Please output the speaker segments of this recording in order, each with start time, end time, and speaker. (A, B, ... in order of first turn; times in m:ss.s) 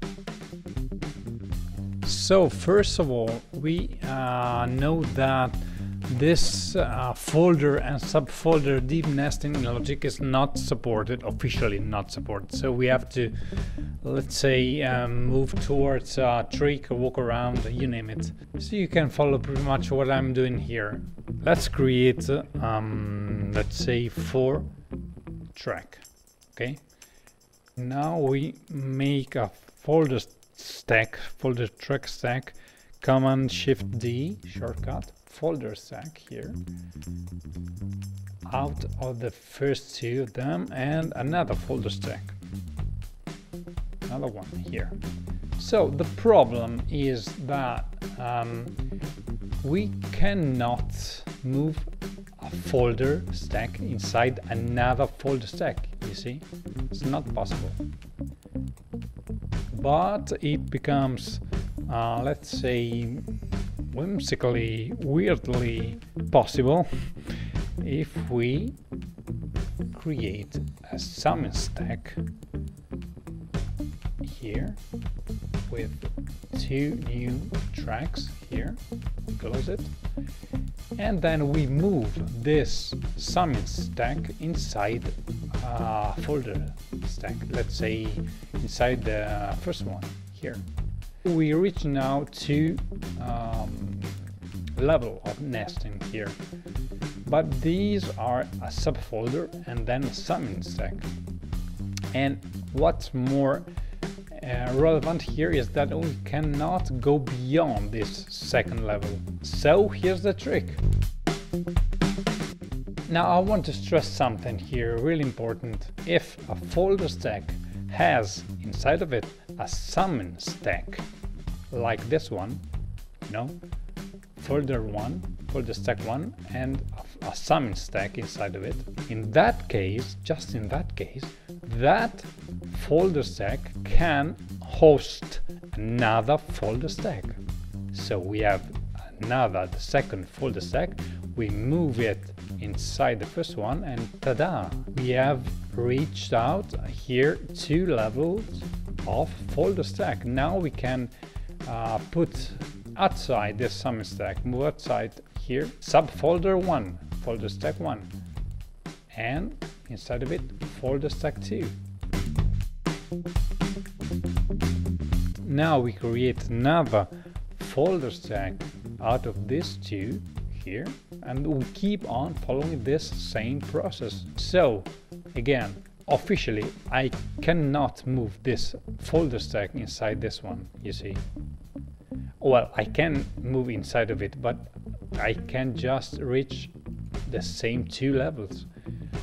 0:02.0-0:24.7 A
0:25.5-0:26.8 A
0:27.8-0:36.6 A
0:38.4-0:42.4 A
0:44.1-0:45.0 A
0:45.6-0:48.8 A
0:49.6-0:57.8 A
0:59.7-1:03.2 A
1:03.9-1:06.9 A
1:07.8-1:08.8 A
1:09.9-1:12.2 A
1:14.2-1:14.8 A
1:15.7-1:19.9 A
1:21.0-1:30.6 A
1:31.2-1:34.2 A
1:34.7-1:36.4 A
1:37.2-1:41.1 A
1:42.1-1:43.6 A
1:44.3-1:50.8 A
1:53.1-2:01.0 A
2:01.7-2:02.6 A
2:03.2-2:03.6 A
2:04.4-2:31.1 A
2:31.6-2:38.1 A
2:39.1-2:41.8 A
2:45.4-3:01.2 A
3:02.4-3:06.7 A
3:07.2-3:08.7 A